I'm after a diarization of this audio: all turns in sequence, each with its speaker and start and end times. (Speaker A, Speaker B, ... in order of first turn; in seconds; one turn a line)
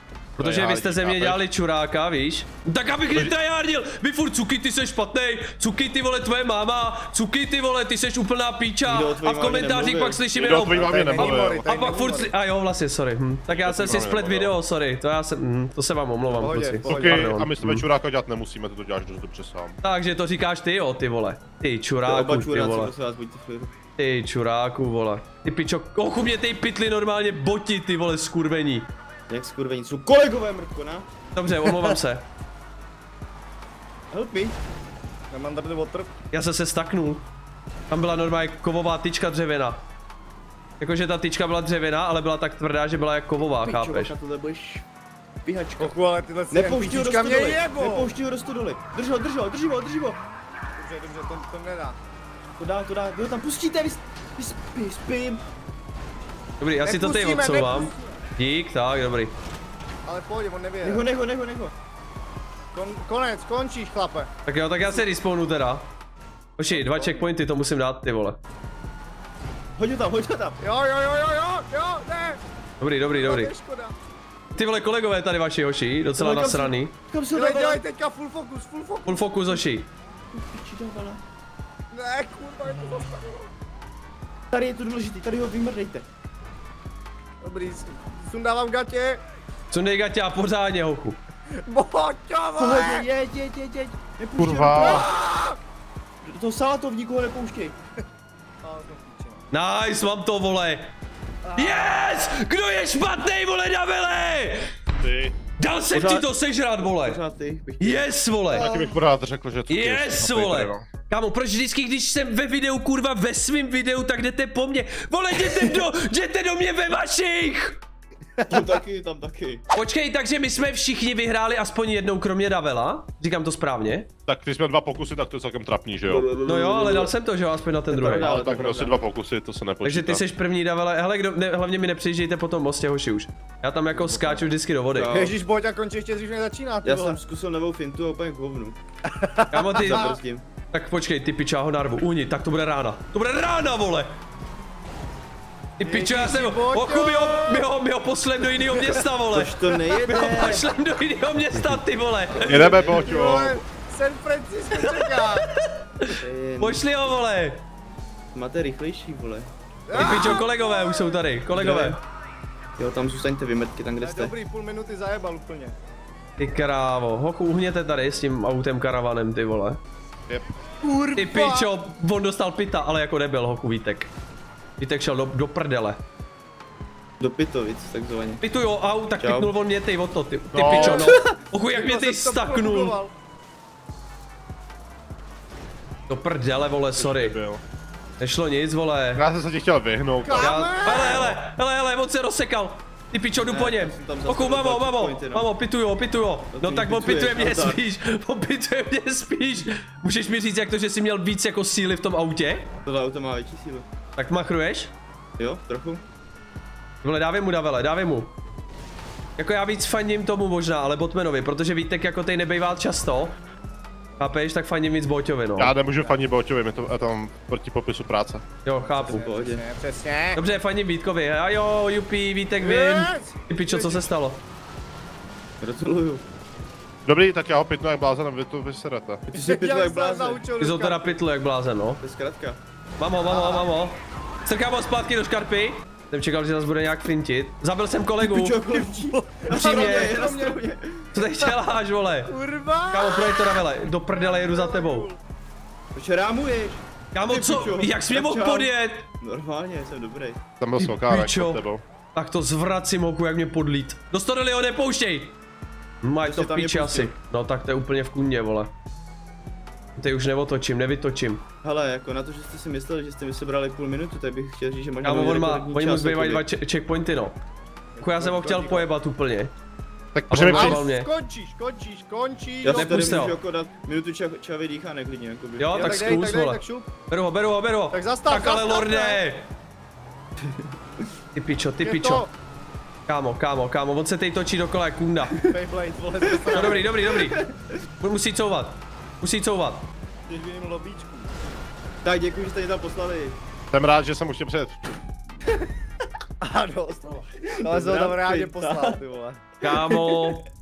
Speaker A: 0.4-17.9
Speaker B: 0.4-1.4
Speaker C: 8.8-11.3
Speaker B: 10.3-11.7
Speaker D: 10.9-12.3
Speaker B: 13.5-14.5
Speaker D: 16.3-17.3
Speaker B: 16.9-19.8
Speaker A: 19.8-22.9
Speaker C: 22.0-23.8
Speaker A: 24.0-28.9
Speaker C: 29.3-31.1
Speaker A: 31.3-32.2
Speaker C: 34.1-34.6
Speaker D: 35.3-36.1
Speaker A: 36.3-37.2
Speaker A: 37.9-39.8
Speaker A: 40.8-44.1
Speaker C: 43.6-44.8
Speaker C: 45.4-46.0
Speaker D: 45.8-48.1
Speaker C: 46.5-50.2
Speaker D: 50.8-52.0
Speaker C: 52.5-55.4
Speaker A: 56.6-59.3
Speaker D: 56.8-58.1
Speaker D: 60.0-61.1
Speaker C: 60.8-61.7
Speaker D: 62.7-64.3
Speaker A: 64.5-65.9
Speaker A: 66.6-68.4
Speaker D: 66.7-67.2
Speaker C: 69.8-70.6
Speaker D: 70.6-72.4
Speaker A: 72.8-73.5
Speaker D: 73.1-73.9
Speaker A: 74.5-76.9
Speaker C: 76.2-77.8
Speaker D: 77.3-79.3
Speaker A: 79.0-79.9
Speaker C: 80.3-81.2
Speaker D: 81.9-83.5
Speaker C: 84.5-86.0
Speaker D: 87.4-89.2
Speaker A: 89.7-91.2
Speaker D: 91.6-93.1
Speaker C: 92.6-95.1
Speaker B: 94.4-95.1
Speaker D: 94.8-95.6
Speaker C: 96.2-97.8
Speaker D: 98.6-99.4
Speaker A: 99.5-100.9
Speaker D: 101.4-101.9
Speaker A: 101.5-104.7
Speaker B: 105.0-105.4
Speaker A: 105.6-107.2
Speaker C: 105.9-109.0
Speaker A: 107.8-108.7
Speaker B: 108.5-110.8
Speaker A: 109.7-117.8
Speaker C: 118.5-119.6
Speaker A: 119.7-124.1
Speaker B: 124.3-126.3
Speaker C: 126.1-127.1
Speaker A: 126.4-128.4
Speaker C: 127.9-129.0
Speaker B: 128.1-130.2
Speaker A: 129.8-135.2
Speaker C: 134.1-134.4
Speaker C: 134.9-135.3
Speaker D: 135.1-137.2
Speaker C: 136.8-138.8
Speaker D: 139.1-140.2
Speaker A: 139.5-140.1
Speaker C: 139.8-140.4
Speaker A: 140.7-144.1
Speaker A: 145.8-152.8
Speaker D: 145.8-147.7
Speaker C: 149.3-150.6
Speaker B: 152.4-153.6
Speaker C: 152.4-153.1
Speaker D: 152.5-155.5
Speaker A: 154.8-157.6
Speaker C: 156.2-156.9
Speaker C: 158.3-160.4
Speaker D: 159.9-161.2
Speaker A: 159.9-162.0
Speaker C: 161.5-162.0
Speaker C: 162.8-164.3
Speaker D: 164.0-165.7
Speaker A: 166.4-169.8
Speaker B: 170.3-170.5
Speaker D: 170.8-171.7
Speaker A: 171.2-174.1
Speaker A: 174.8-176.0
Speaker C: 177.2-178.4
Speaker A: 178.4-182.9
Speaker C: 179.2-179.5
Speaker B: 180.5-181.2
Speaker D: 180.7-181.1
Speaker D: 181.7-183.1
Speaker A: 186.1-187.4
Speaker B: 186.9-187.6
Speaker A: 188.2-189.2
Speaker B: 189.1-191.3
Speaker D: 190.2-191.4
Speaker A: 190.3-202.7
Speaker C: 193.4-195.5
Speaker C: 196.5-197.8
Speaker C: 202.8-203.9
Speaker A: 204.2-204.9
Speaker C: 205.4-206.0
Speaker A: 207.0-208.3
Speaker A: 209.4-213.3
Speaker A: 214.2-215.7
Speaker B: 215.6-218.4
Speaker A: 218.6-219.2
Speaker C: 219.0-219.6
Speaker D: 219.0-220.4
Speaker A: 220.3-224.4
Speaker D: 222.6-224.1
Speaker C: 225.6-226.2
Speaker B: 227.1-229.2
Speaker C: 229.3-230.4
Speaker D: 229.3-231.2
Speaker A: 230.6-232.0
Speaker C: 232.0-232.6
Speaker A: 233.0-238.6
Speaker C: 233.3-233.6
Speaker C: 238.2-241.1
Speaker D: 238.7-240.6
Speaker A: 239.5-240.2
Speaker A: 241.1-242.3
Speaker D: 242.3-243.6
Speaker A: 242.9-245.1
Speaker D: 244.1-245.2
Speaker C: 245.9-250.4
Speaker A: 247.1-249.1
Speaker B: 250.6-251.8
Speaker A: 250.8-251.6
Speaker A: 252.1-255.3
Speaker A: 256.0-258.7
Speaker C: 256.2-257.1
Speaker A: 259.9-261.4
Speaker C: 261.6-266.4
Speaker A: 265.0-267.4
Speaker C: 268.0-268.9
Speaker A: 268.0-269.5
Speaker B: 270.1-270.8
Speaker A: 270.3-271.1
Speaker D: 270.5-273.3
Speaker C: 272.6-276.1
Speaker A: 272.7-273.4
Speaker A: 275.6-279.5
Speaker D: 275.7-276.9
Speaker D: 277.9-279.2
Speaker C: 280.4-281.1
Speaker A: 281.3-282.3
Speaker D: 281.8-282.3
Speaker A: 283.1-285.4
Speaker D: 285.5-286.9
Speaker C: 286.3-287.8
Speaker A: 286.5-287.4
Speaker A: 288.0-289.8
Speaker D: 290.3-291.3
Speaker C: 292.0-293.4
Speaker B: 293.7-294.9
Speaker D: 296.4-299.8
Speaker C: 297.4-299.0
Speaker A: 299.6-300.4
Speaker C: 299.9-300.3